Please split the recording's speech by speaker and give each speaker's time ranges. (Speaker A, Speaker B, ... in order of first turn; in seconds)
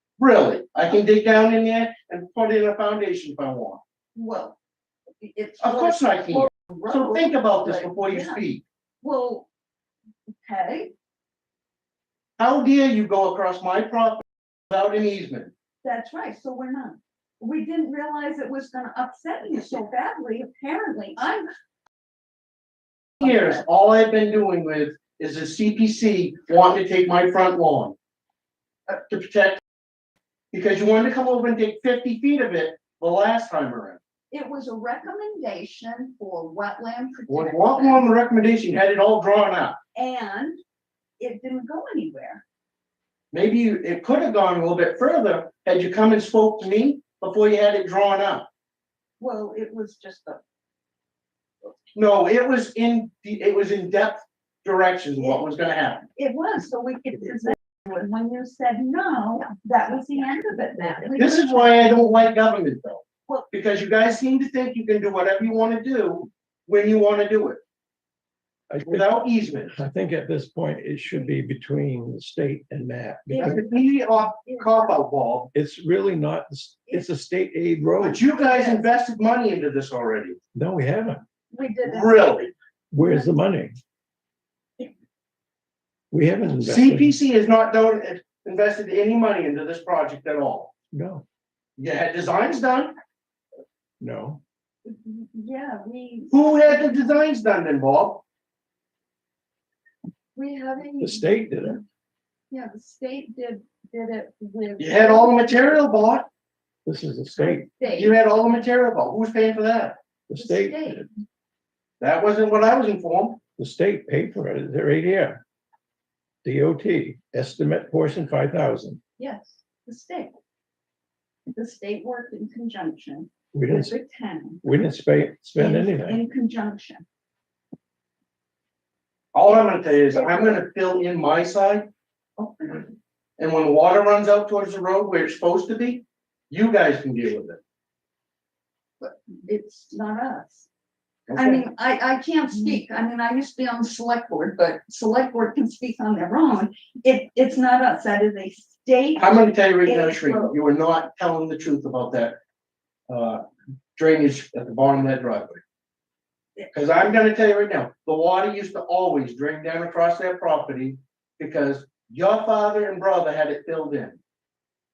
Speaker A: 0.2-3.8, 5.6-8.6, 12.4-15.5, 23.2-27.9, 29.1-29.6, 30.5-34.0, 37.3-39.8, 43.3-48.5, 51.9-56.1, 61.2-67.6, 68.8-69.8, 73.4-75.5, 78.0-80.4, 81.8-82.5, 86.6-90.7, 91.8-92.9, 96.3-98.2, 104.8-106.3, 107.9-110.0, 112.0-113.4, 129.3-131.9, 133.4-137.6, 141.3-141.6, 149.2-152.4, 153.1-153.4, 153.9-155.6, 156.7-164.2
Speaker B: 4.1-4.6, 5.2-8.4, 9.0-9.5, 10.4-10.9, 15.8-21.5, 23.2-23.6, 34.3-38.1, 39.9-40.6, 41.2-42.4, 49.2-50.4, 56.1-62.0, 73.3-74.9, 78.4-78.8, 81.5-82.3, 83.0-83.3, 94.8-96.9, 100.3-101.8, 102.5-105.7, 107.4-108.2, 110.4-111.1, 119.2-120.3, 121.5-124.6, 125.5-127.0, 139.0-140.7, 141.3-150.5
Speaker C: 68.7-73.7, 75.5-78.2, 80.5-81.2, 82.9-83.7, 86.1-87.2, 90.9-91.2, 94.0-94.4, 101.0-101.8, 106.8-107.7, 110.3-111.1, 113.6-115.4, 116.4-119.0, 123.5-123.9, 124.6-126.2